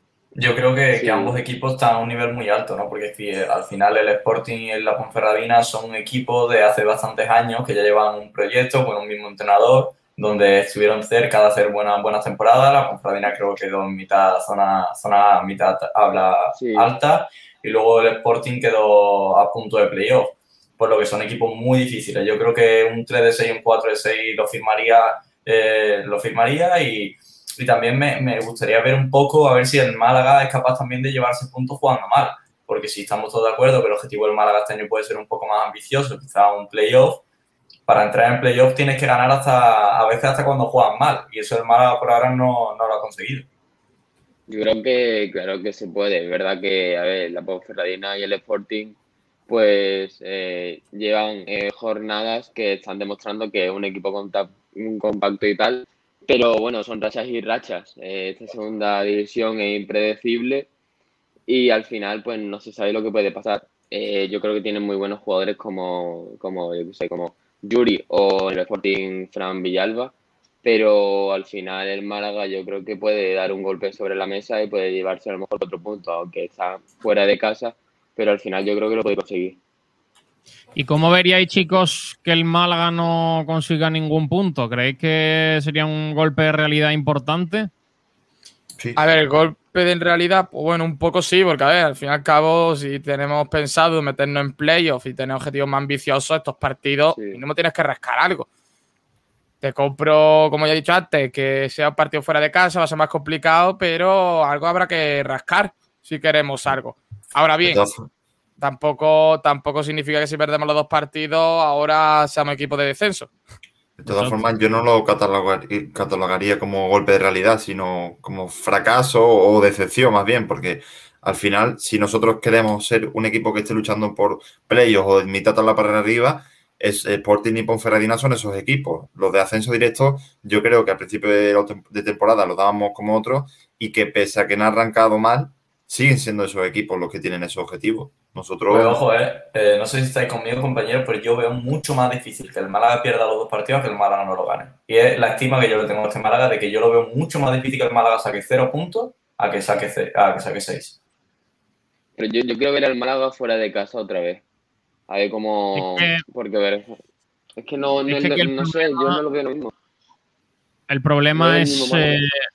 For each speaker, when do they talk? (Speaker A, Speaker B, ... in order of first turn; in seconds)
Speaker A: 0.3-37.2, 37.9-43.5, 138.7-151.0
Speaker B: 0.9-1.4, 16.5-16.9, 44.5-49.0, 49.5-60.7, 61.5-79.6, 97.1-97.4, 152.2-154.4, 155.1-157.0, 157.6-159.7, 161.3-162.2
Speaker C: 80.8-87.7, 155.7-156.2, 158.1-159.2, 160.9-162.3
Speaker D: 89.0-98.5, 99.6-107.8, 108.6-113.3
Speaker E: 107.6-108.1, 114.0-139.0